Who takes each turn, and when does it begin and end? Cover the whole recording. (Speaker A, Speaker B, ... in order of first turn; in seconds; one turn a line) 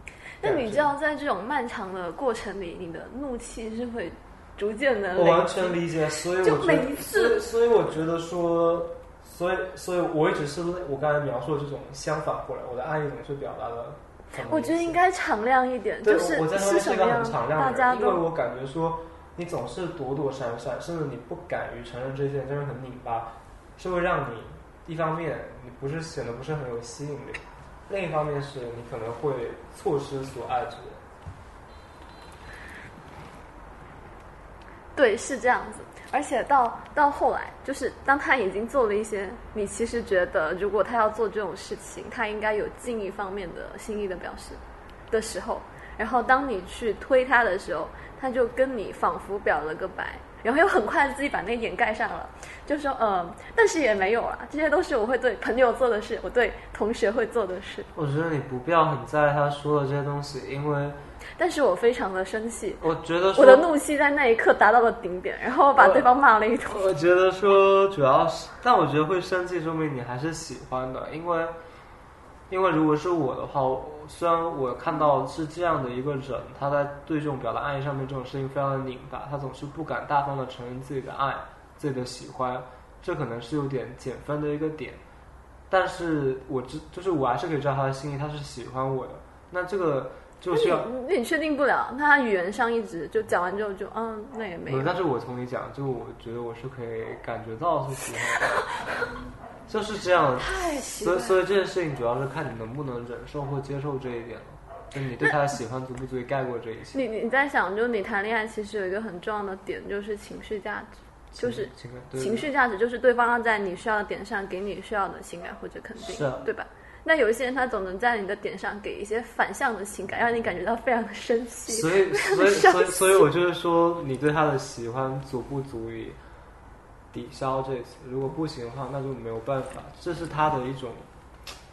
Speaker A: 0.4-5.8
Speaker B: 0.4-0.9
Speaker B: 5.2-15.0
Speaker A: 6.4-7.5
Speaker A: 14.4-18.2
Speaker B: 16.0-31.0
Speaker A: 34.9-57.9
Speaker B: 57.9-61.0
Speaker A: 61.4-62.8
Speaker B: 62.8-63.7
Speaker A: 63.3-66.9
Speaker B: 65.7-66.1
Speaker B: 66.6-71.5
Speaker B: 72.5-85.0
Speaker B: 85.7-90.9
Speaker A: 90.5-94.9
Speaker B: 94.7-98.6
Speaker B: 99.7-107.0
Speaker A: 100.4-101.4
Speaker A: 106.9-123.3
Speaker B: 111.4-112.5
Speaker B: 116.0-116.5
Speaker B: 121.7-126.2
Speaker B: 127.1-131.1